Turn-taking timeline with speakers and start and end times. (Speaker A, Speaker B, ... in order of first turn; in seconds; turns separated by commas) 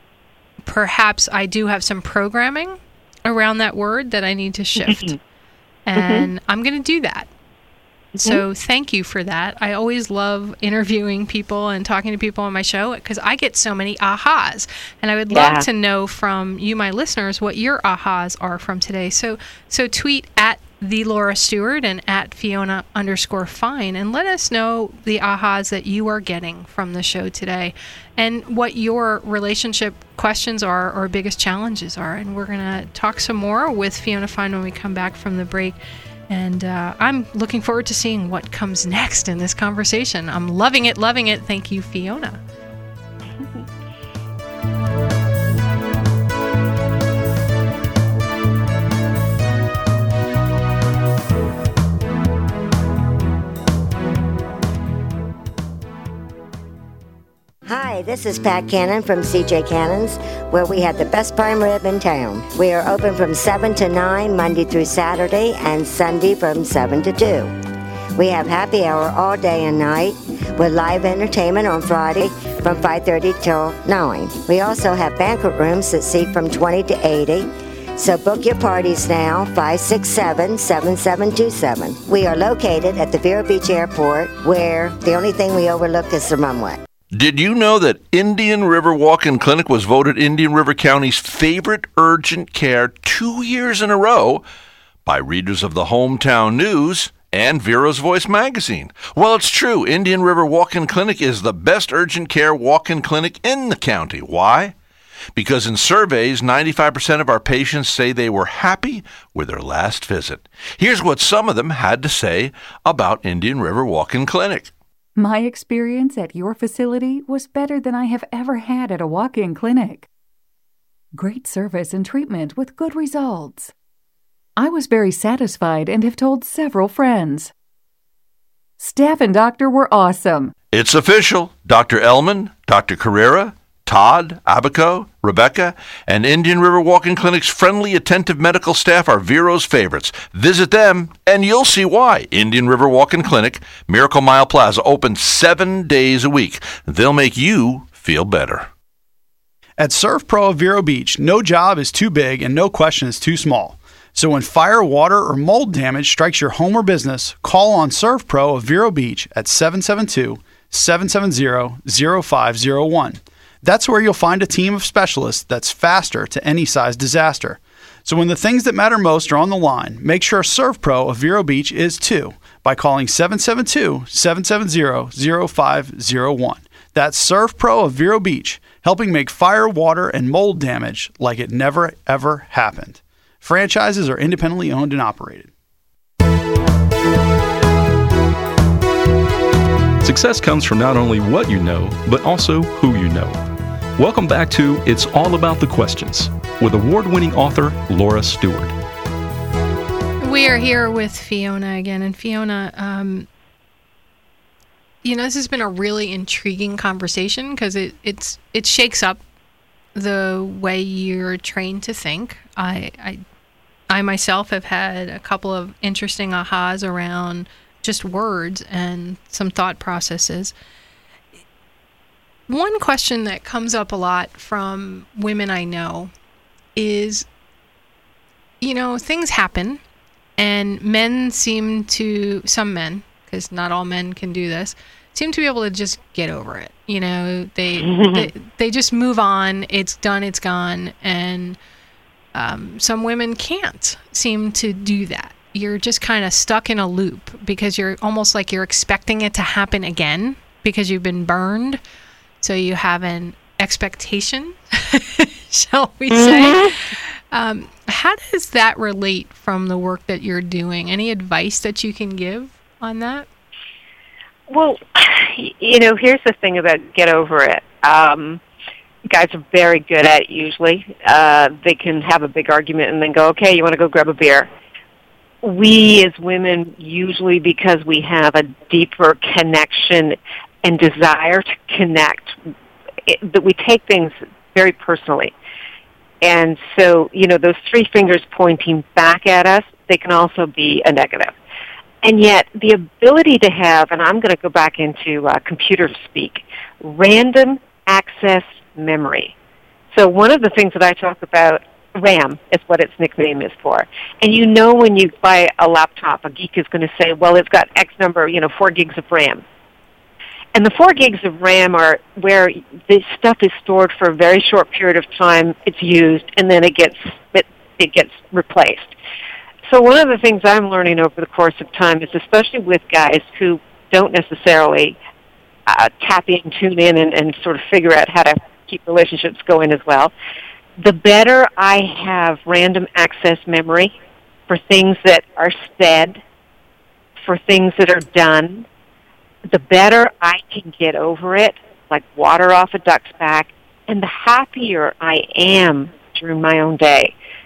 Speaker A: 0.6-5.1, Speaker B: 4.8-5.1, Speaker A: 5.8-7.3, Speaker B: 6.0-6.3, Speaker B: 8.1-8.4, Speaker A: 8.2-35.8, Speaker B: 15.3-15.7, Speaker A: 36.3-42.4, Speaker C: 57.6-67.5, Speaker C: 68.2-86.8, Speaker D: 87.1-94.4, Speaker D: 95.0-104.7, Speaker D: 105.3-114.7, Speaker E: 115.2-120.1, Speaker E: 121.1-123.7, Speaker E: 124.6-127.5, Speaker E: 128.8-130.5, Speaker D: 130.7-148.7, Speaker F: 149.8-185.5, Speaker G: 190.0-193.4, Speaker G: 194.0-198.7, Speaker A: 200.2-203.3, Speaker A: 205.0-209.2, Speaker A: 209.9-213.2, Speaker A: 213.9-220.5, Speaker A: 222.5-226.1, Speaker A: 226.8-227.2, Speaker A: 228.6-229.8, Speaker A: 230.4-241.6, Speaker B: 237.8-238.3, Speaker A: 242.3-251.8, Speaker A: 252.4-263.3, Speaker B: 256.1-256.8, Speaker B: 264.5-268.4, Speaker B: 269.1-274.5, Speaker B: 275.4-282.4, Speaker B: 283.1-285.3, Speaker B: 286.2-291.3, Speaker B: 292.0-299.3, Speaker B: 299.9-309.4, Speaker B: 310.5-318.9, Speaker B: 319.7-325.0, Speaker B: 325.7-330.1, Speaker B: 330.8-333.9, Speaker B: 334.5-336.2, Speaker B: 337.2-338.6, Speaker B: 339.5-347.1